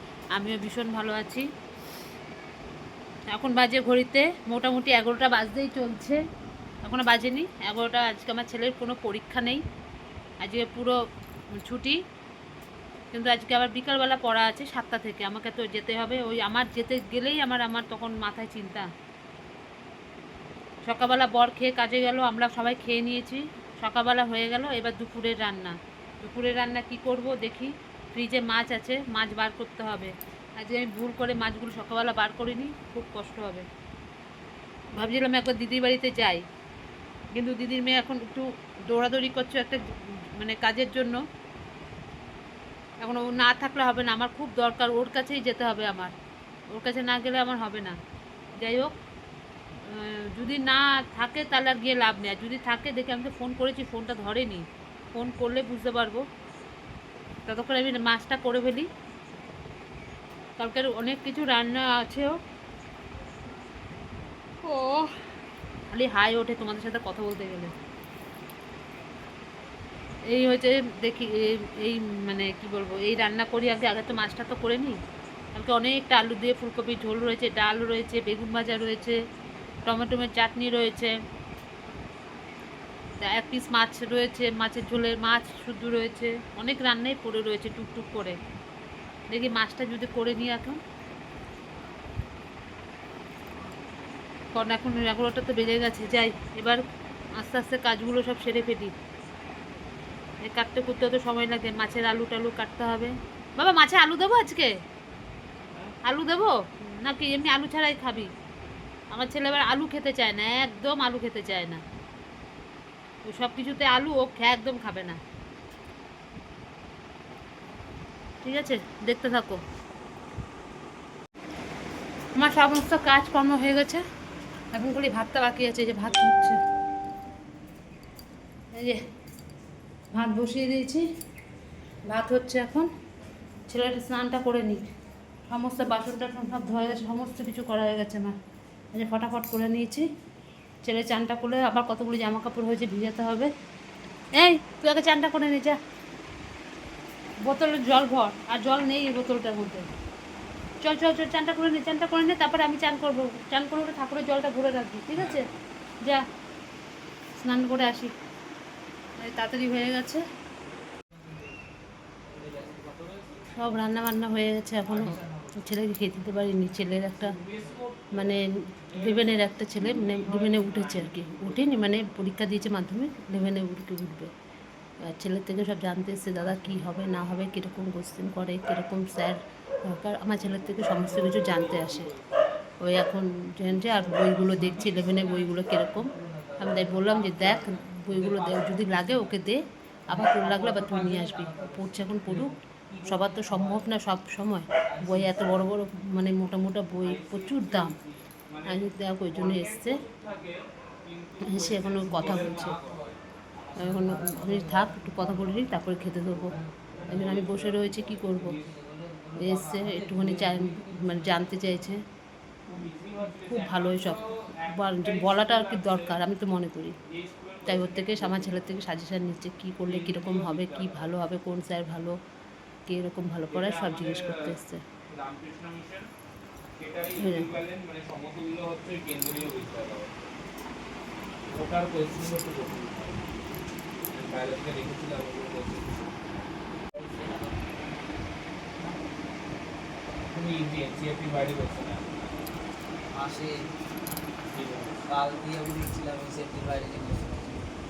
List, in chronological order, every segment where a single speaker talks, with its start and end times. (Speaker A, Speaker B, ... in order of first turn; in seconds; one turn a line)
Speaker A: 0.3-1.5
Speaker A: 3.3-6.2
Speaker A: 6.8-9.6
Speaker A: 10.4-11.0
Speaker A: 11.5-12.0
Speaker A: 13.1-18.9
Speaker A: 20.8-33.7
Speaker A: 35.0-36.5
Speaker A: 37.3-41.2
Speaker A: 43.0-46.1
Speaker A: 46.7-48.0
Speaker A: 48.6-49.0
Speaker A: 49.8-56.3
Speaker A: 57.5-58.9
Speaker A: 60.6-62.4
Speaker A: 65.9-67.7
Speaker A: 70.3-75.0
Speaker A: 75.5-79.2
Speaker A: 79.9-81.2
Speaker A: 83.2-88.4
Speaker A: 89.3-90.8
Speaker A: 94.5-96.8
Speaker A: 97.3-99.0
Speaker A: 100.4-104.8
Speaker A: 106.0-108.3
Speaker A: 109.1-111.8
Speaker A: 113.2-115.2
Speaker A: 118.4-119.6
Speaker A: 122.3-124.0
Speaker A: 124.7-126.6
Speaker A: 128.7-129.0
Speaker A: 130.1-131.1
Speaker A: 132.1-132.9
Speaker A: 133.7-134.9
Speaker A: 135.5-138.4
Speaker A: 138.9-140.1
Speaker A: 140.8-143.5
Speaker A: 144.3-145.8
Speaker A: 147.4-149.9
Speaker A: 150.8-155.5
Speaker A: 157.3-158.1
Speaker A: 159.2-160.2
Speaker B: 161.2-161.5
Speaker B: 162.3-163.4
Speaker A: 163.5-167.4
Speaker B: 164.9-165.6
Speaker B: 167.3-168.3
Speaker C: 167.4-167.9
Speaker A: 168.1-174.3
Speaker C: 168.9-169.3
Speaker C: 170.0-171.7
Speaker A: 175.0-182.1
Speaker B: 176.6-176.9
Speaker C: 180.4-182.2
Speaker A: 182.8-192.5
Speaker B: 183.8-189.4
Speaker C: 184.4-185.2
Speaker B: 190.1-193.9
Speaker A: 193.0-197.9
Speaker B: 194.8-195.7
Speaker C: 197.0-203.1
Speaker A: 198.7-200.0
Speaker A: 201.4-202.8
Speaker B: 202.0-211.8
Speaker A: 203.8-206.6
Speaker C: 206.9-208.3
Speaker A: 207.1-208.6
Speaker A: 209.4-212.0
Speaker A: 212.7-217.0
Speaker C: 212.8-216.2
Speaker C: 217.1-218.8
Speaker A: 217.7-222.2
Speaker C: 219.8-221.2
Speaker A: 222.9-224.8
Speaker C: 223.5-224.5
Speaker C: 225.1-226.1
Speaker C: 226.8-230.1
Speaker A: 227.2-227.5
Speaker C: 231.5-233.2
Speaker C: 234.1-236.2
Speaker B: 237.0-237.6
Speaker C: 240.3-242.1
Speaker B: 243.1-243.7
Speaker C: 244.5-245.0
Speaker B: 245.1-247.6